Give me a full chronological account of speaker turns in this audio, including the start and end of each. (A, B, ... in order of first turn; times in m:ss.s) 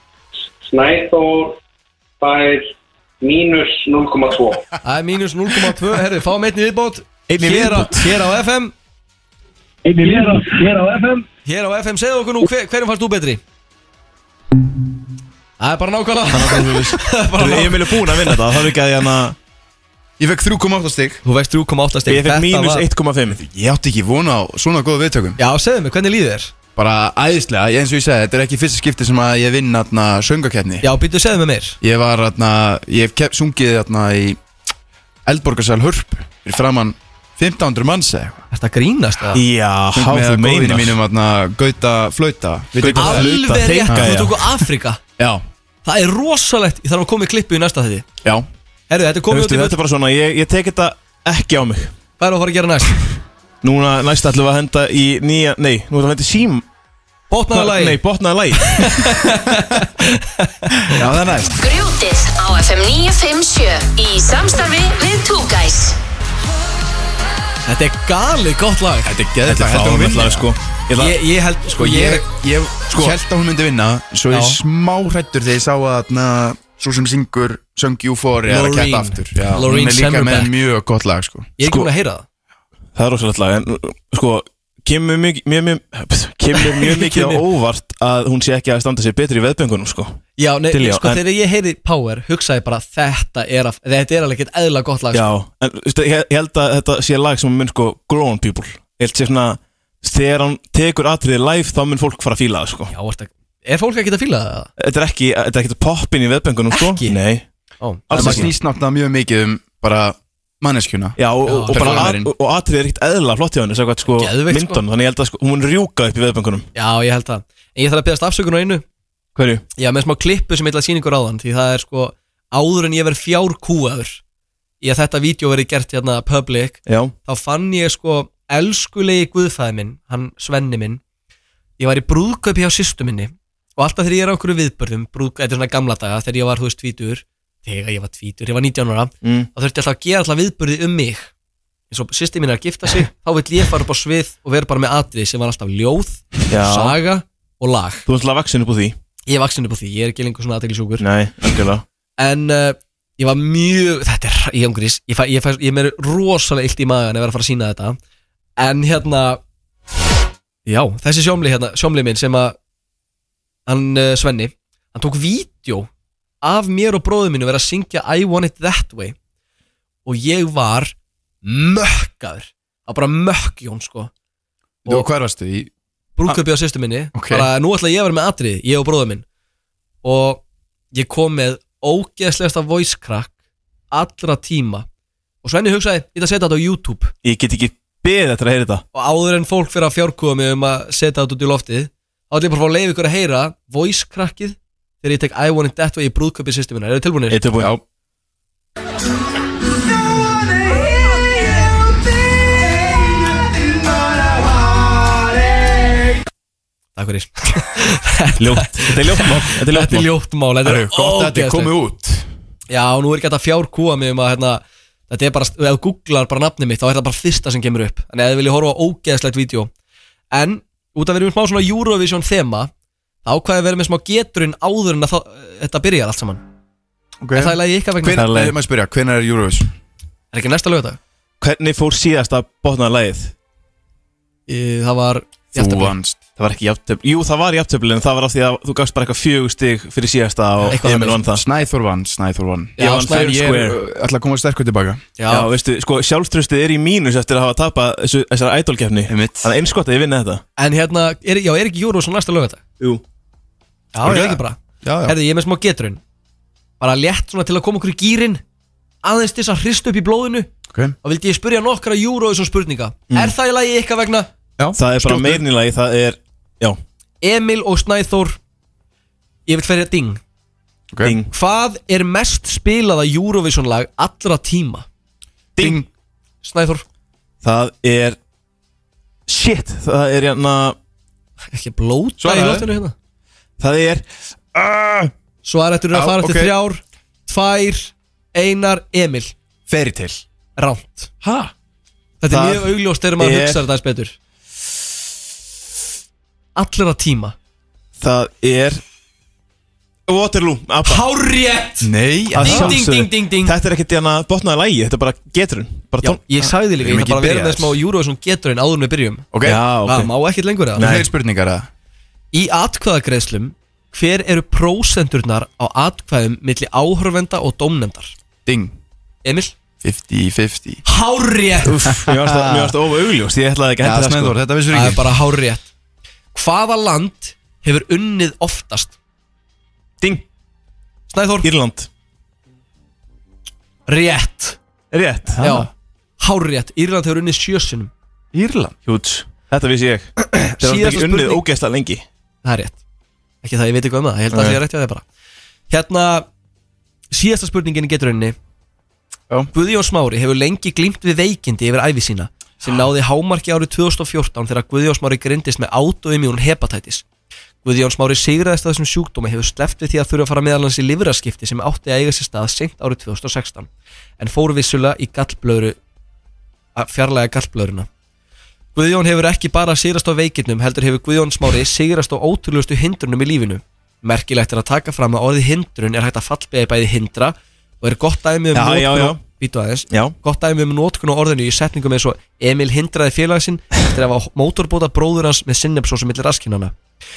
0:00.6-0:01.6 A
0:02.2-0:04.7 A
0:04.8-0:08.7 B
0:07.3-0:08.2 C
0:10.0-0:10.4 B
0:11.4-0:13.4 B
0:15.6-0:18.5 B
0:16.3-0:19.4 C
0:20.2-0:21.2 D
0:21.2-0:22.8 B
0:22.0-0:23.4 C
0:23.3-0:25.4 D
0:25.4-0:26.5 B
0:26.8-0:30.9 D
0:30.8-0:31.8 B
0:31.8-0:34.4 D
0:35.2-0:38.4 D
0:38.5-0:39.4 B
0:39.3-0:41.0 C
0:39.9-0:43.3 D
0:42.8-0:44.4 C
0:42.9-0:45.0 B
0:43.9-0:44.3 D
0:45.8-0:48.0 B
0:48.9-0:49.8 B
0:49.3-0:51.9 C
0:52.2-0:53.0 B
0:53.6-0:56.6 C
0:57.3-0:58.0 B
0:57.5-0:59.2 C
0:58.6-1:00.9 B
1:00.9-1:01.6 D
1:01.6-1:06.0 E
1:07.6-1:09.1 B
1:09.0-1:10.5 D
1:09.4-1:11.2 C
1:11.0-1:12.2 B
1:11.7-1:21.5 D
1:14.3-1:14.6 B
1:18.5-1:20.5 B
1:21.6-1:22.2 B
1:21.6-1:21.9 C
1:22.9-1:31.2 C
1:26.6-1:27.4 B
1:30.4-1:35.3 B
1:35.1-1:42.9 C
1:42.9-1:44.7 B
1:44.8-1:47.4 C
1:46.7-1:47.2 B
1:47.8-1:48.5 B
1:48.1-1:48.5 C
1:48.1-1:52.3 D
1:51.2-1:56.7 C
1:51.4-1:52.1 B
1:54.2-1:54.8 B
1:56.7-1:58.8 B
1:59.4-1:59.6 C
1:59.8-2:04.2 B
2:04.8-2:11.0 B
2:06.8-2:07.1 C
2:11.8-2:21.3 B
2:19.2-2:19.5 C
2:21.9-2:28.0 B
2:26.5-2:27.0 C
2:28.0-2:29.0 C
2:29.3-2:31.0 B
2:31.0-2:31.8 C
2:32.2-2:38.0 B
2:38.6-2:39.4 B
2:40.7-2:42.6 B
2:43.7-2:45.9 B
2:46.4-2:49.2 B
2:50.0-2:54.1 B
2:54.8-2:55.7 D
2:56.2-2:59.2 B
2:57.1-2:57.5 D
3:00.0-3:03.3 B
3:03.9-3:04.8 B
3:05.4-3:07.1 B
3:07.2-3:08.8 C
3:08.9-3:17.4 B
3:17.3-3:17.7 C
3:27.0-3:31.7 B
3:28.4-3:30.1 C
3:30.6-3:32.2 D
3:32.7-3:39.7 B
3:40.3-3:42.7 B
3:43.2-3:46.4 B
3:47.2-3:49.7 D
3:47.3-3:48.2 B
3:48.2-3:48.6 C
3:50.3-3:51.0 B
3:51.4-3:53.3 C
3:54.5-3:55.9 B
3:55.5-3:56.2 D
3:56.4-4:01.4 C
4:00.7-4:01.2 B
4:00.8-4:05.0 D
4:02.8-4:03.3 B
4:02.8-4:03.8 C
4:05.2-4:05.5 B
4:05.3-4:10.4 C
4:09.1-4:09.5 D
4:10.6-4:12.6 B
4:13.9-4:16.0 B
4:14.0-4:15.2 D
4:16.8-4:18.4 B
4:19.0-4:20.5 B
4:20.7-4:21.0 D
4:21.0-4:24.3 B
4:23.1-4:23.3 C
4:24.6-4:25.4 D
4:24.7-4:26.8 C
4:27.2-4:28.4 B
4:29.5-4:30.2 B
4:30.9-4:31.2 D
4:31.0-4:31.3 C
4:31.3-4:34.8 B
4:35.6-4:35.9 D
4:36.4-4:36.8 B
4:37.4-4:38.2 C
4:39.3-4:40.8 C
4:41.5-4:42.9 B
4:42.2-4:42.7 D
4:43.6-4:45.1 C
4:45.4-4:49.3 B
4:45.9-4:46.5 D
4:49.7-4:50.2 D
4:50.6-4:51.1 B
4:51.2-4:51.5 D
4:52.2-4:54.1 B
4:52.3-4:53.6 C
4:56.6-4:57.3 B
4:58.0-4:58.8 C
5:00.1-5:01.0 C
5:00.8-5:03.5 B
5:01.8-5:02.9 D
5:02.4-5:06.5 C
5:06.0-5:09.3 B
5:06.8-5:07.7 D
5:09.3-5:09.6 D
5:09.4-5:10.1 C
5:09.8-5:10.9 B
5:10.8-5:11.1 C
5:10.8-5:11.7 D
5:12.3-5:18.1 B
5:18.4-5:18.7 D
5:19.2-5:19.5 B
5:19.8-5:20.8 D
5:20.8-5:21.9 B
5:21.6-5:24.4 C
5:22.0-5:22.7 D
5:23.8-5:25.1 D
5:24.7-5:25.7 B
5:26.3-5:28.9 B
5:30.0-5:30.2 C
5:31.1-5:31.5 B
5:31.4-5:31.9 C
5:33.9-5:34.6 B
5:34.9-5:35.4 C
5:35.4-5:35.7 D
5:35.4-5:37.9 B
5:38.3-5:38.8 D
5:38.8-5:42.0 C
5:40.5-5:41.4 B
5:42.4-5:42.8 B
5:43.4-5:45.0 B
5:44.3-5:44.6 C
5:45.7-5:46.3 B
5:47.1-5:48.4 B
5:49.5-5:57.0 B
5:57.6-6:05.8 B
6:06.8-6:07.9 B
6:08.7-6:26.7 B
6:18.5-6:19.2 C
6:19.9-6:20.1 C